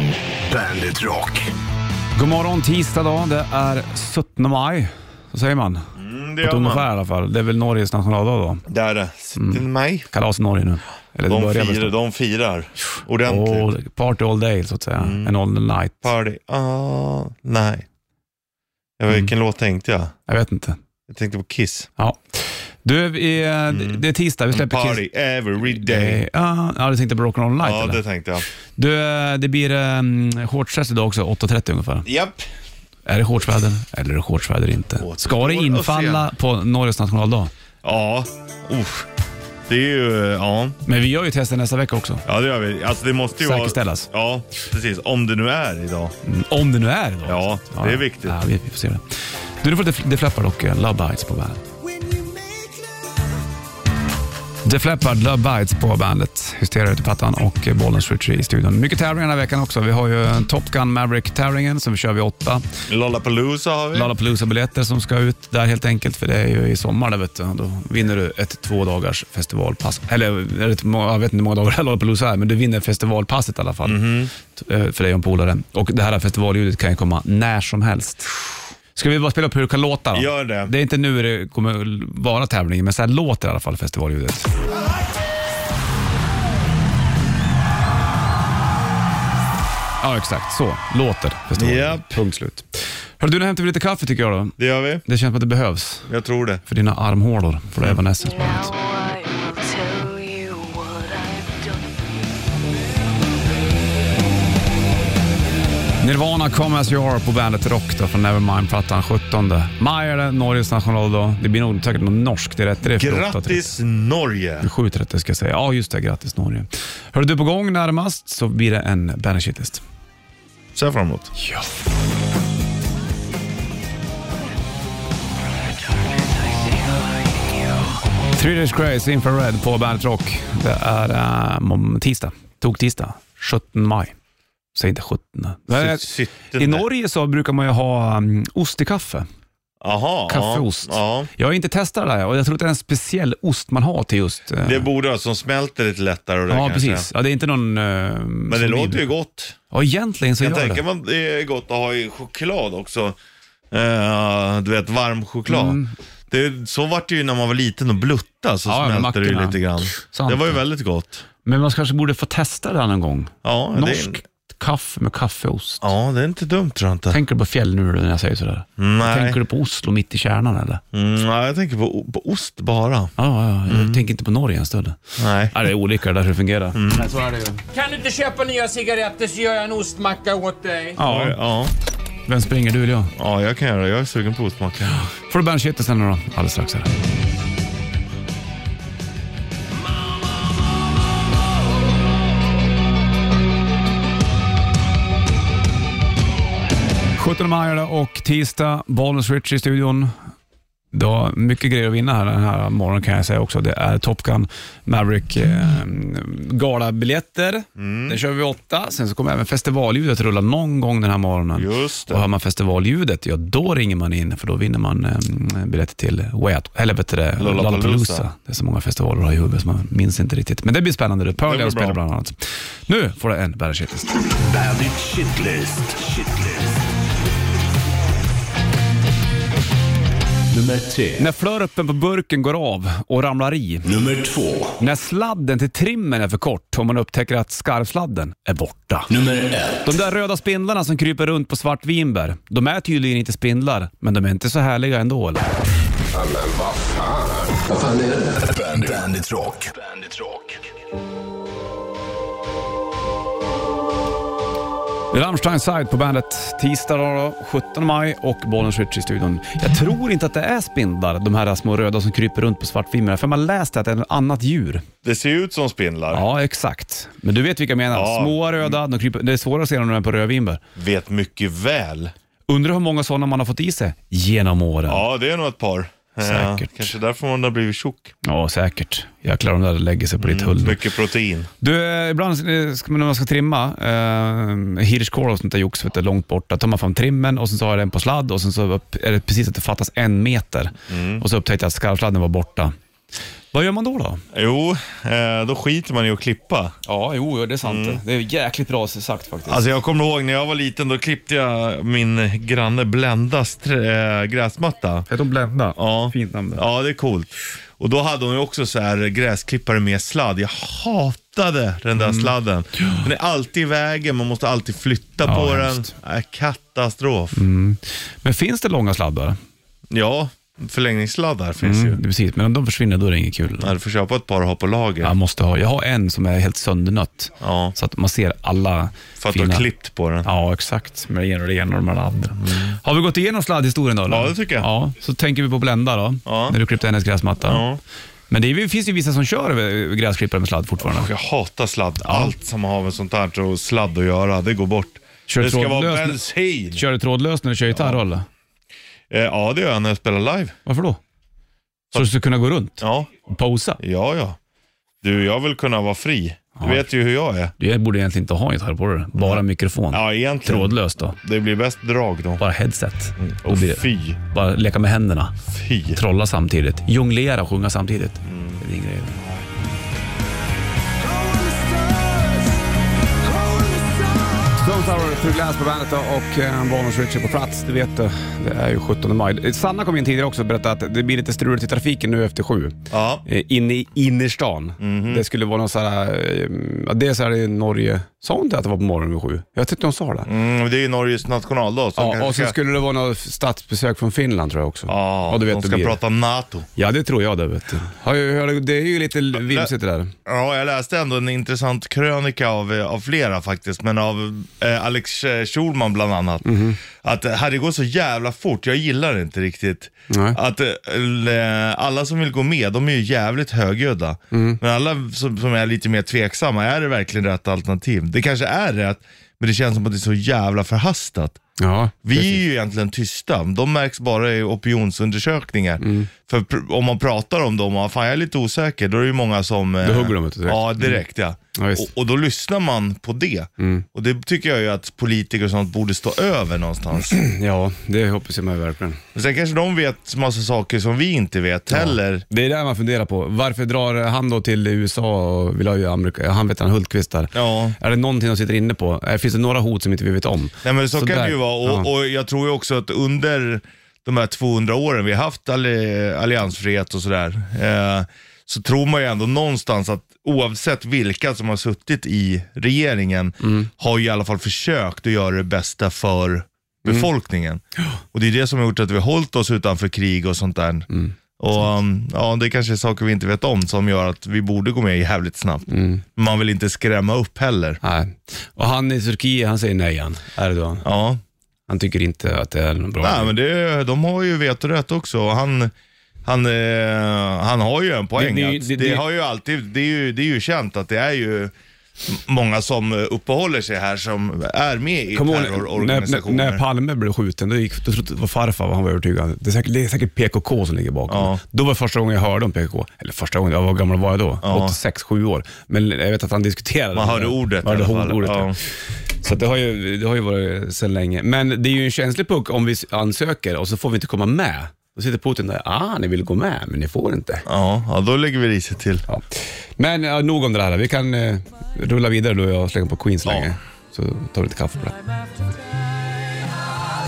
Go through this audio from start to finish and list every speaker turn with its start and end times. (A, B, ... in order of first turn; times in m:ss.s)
0:00.5-0:01.4 A
0:02.2-0:05.9 B
0:06.0-0:06.9 C
0:06.4-0:08.6 B
0:08.7-0:10.1 C
0:09.4-0:11.9 B
0:11.3-0:13.7 C
0:13.2-0:16.1 B
0:15.0-0:15.3 C
0:16.0-0:17.9 C
0:19.0-0:20.1 C
0:20.3-0:20.8 B
0:21.1-0:21.9 C
0:22.0-0:25.0 B
0:23.7-0:26.2 C
0:25.6-0:28.0 B
0:27.6-0:28.4 C
0:28.8-0:32.1 B
0:32.0-0:32.4 C
0:33.0-0:37.5 B
0:35.0-0:36.3 C
0:37.8-0:39.1 C
0:39.7-0:40.8 C
0:40.8-0:42.2 B
0:42.2-0:46.1 C
0:43.4-0:44.1 B
0:46.2-0:49.0 B
0:47.2-0:48.4 C
0:49.6-0:51.6 B
0:54.6-1:02.6 B
1:02.9-1:04.1 C
1:03.9-1:18.3 B
1:13.8-1:14.3 C
1:18.9-1:24.5 B
1:20.1-1:20.7 C
1:30.0-1:36.1 B
1:31.6-1:32.1 C
1:34.6-1:35.0 C
1:36.1-1:36.6 C
1:36.6-1:38.7 B
1:38.2-1:41.9 D
1:46.0-1:53.7 B
1:52.9-1:54.7 C
1:54.6-1:59.8 B
2:00.7-2:01.3 C
2:01.4-2:01.7 B
2:08.4-2:14.1 B
2:14.8-2:19.3 B
2:15.7-2:16.8 C
2:19.8-2:21.3 C
2:20.3-2:24.9 B
2:24.6-2:27.1 C
2:26.5-2:29.1 B
2:28.5-2:29.6 C
2:29.7-2:30.8 B
2:30.4-2:33.2 C
2:33.7-2:41.2 C
2:35.5-2:35.9 B
2:38.7-2:40.6 B
2:41.4-2:45.9 B
2:43.4-2:44.2 C
2:45.8-2:47.2 C
2:47.1-2:50.8 B
2:48.8-2:49.4 C
2:50.9-2:53.1 C
2:53.2-2:57.6 B
2:53.7-2:54.0 C
2:55.2-2:55.5 C
2:56.8-2:57.1 C
2:57.7-3:01.0 E
3:01.0-3:01.4 B
3:01.0-3:01.7 C
3:02.3-3:03.1 B
3:03.2-3:05.0 C
3:04.9-3:06.9 B
3:17.2-3:20.1 B
3:20.9-3:44.1 B
3:27.8-3:28.2 C
3:31.5-3:32.2 C
3:37.4-3:38.3 C
3:41.4-3:42.0 C
3:44.4-3:46.8 A
3:50.5-3:51.2 A
3:51.2-3:53.9 B
3:53.8-3:54.8 A
3:54.8-3:59.1 B
3:59.1-3:59.9 A
3:59.8-4:05.4 B
4:06.2-4:10.6 A
4:15.1-4:24.8 B
4:25.0-4:26.2 C
4:26.1-4:30.6 B
4:27.9-4:28.8 C
4:30.8-4:32.1 C
4:32.5-4:35.1 B
4:34.9-4:38.1 C
4:36.2-4:36.9 B
4:38.2-4:40.8 B
4:40.2-4:41.5 C
4:41.6-4:52.7 B
4:50.9-4:51.2 C
4:53.5-4:54.2 B
4:54.3-4:56.7 C
4:56.9-4:59.6 B
4:57.6-4:58.0 C
4:59.5-5:05.1 C
5:05.1-5:06.6 B
5:05.8-5:17.4 C
5:12.0-5:13.0 B
5:15.2-5:15.9 B
5:17.3-5:19.4 B
5:19.9-5:22.0 C
5:21.6-5:23.7 B
5:23.6-5:25.1 C
5:25.0-5:29.7 B
5:27.4-5:27.8 C
5:29.2-5:30.3 C
5:30.2-5:37.6 B
5:32.4-5:32.8 C
5:34.1-5:34.7 C
5:36.2-5:36.6 C
5:37.5-5:37.8 C
5:38.3-5:41.1 B
5:40.8-5:46.8 C
5:42.1-5:42.3 B
5:45.3-5:46.2 B
5:46.7-5:48.2 B
5:47.7-5:48.0 C
5:49.1-5:50.5 C
5:50.6-5:51.0 B
5:51.9-5:53.8 B
5:52.8-5:53.1 C
5:53.8-5:54.4 C
5:55.0-5:57.5 C
5:56.6-5:56.9 B
5:57.6-6:01.2 B
5:59.2-6:02.4 C
6:02.4-6:05.4 B
6:03.2-6:04.2 C
6:05.5-6:06.0 C
6:05.9-6:09.2 B
6:08.2-6:08.6 C
6:09.2-6:09.4 C
6:11.2-6:12.5 C
6:13.3-6:14.3 C
6:14.6-6:30.3 B
6:22.9-6:23.2 C
6:24.8-6:25.2 C
6:30.2-6:32.6 C
6:32.0-6:36.0 B
6:34.9-6:36.7 C
6:36.8-6:40.1 B
6:39.3-6:39.7 C
6:40.2-7:01.4 C
6:46.4-6:46.8 B
6:50.1-6:50.4 B
6:54.3-6:54.6 B
7:01.6-7:02.4 B
7:02.0-7:17.2 C
7:05.8-7:06.1 B
7:09.8-7:11.0 B
7:11.6-7:11.9 B
7:13.6-7:13.9 B
7:17.1-7:19.0 B
7:19.1-7:22.2 C
7:21.7-7:31.9 B
7:27.3-7:27.8 C
7:30.6-7:50.9 C
7:43.4-7:43.7 B
7:50.9-7:51.1 B
7:51.4-7:57.8 C
7:55.7-7:56.0 B
7:57.8-8:00.9 B
8:00.8-8:01.2 C
8:01.7-8:03.3 B
8:03.0-8:05.7 C
8:06.2-8:11.5 C
8:08.2-8:09.0 B
8:12.0-8:16.6 C
8:15.1-8:28.6 B
8:21.1-8:21.4 C
8:24.4-8:24.8 C
8:26.9-8:28.6 C
8:29.2-8:37.4 B
8:37.5-8:39.0 C
8:39.1-8:45.0 B
8:43.2-8:43.5 C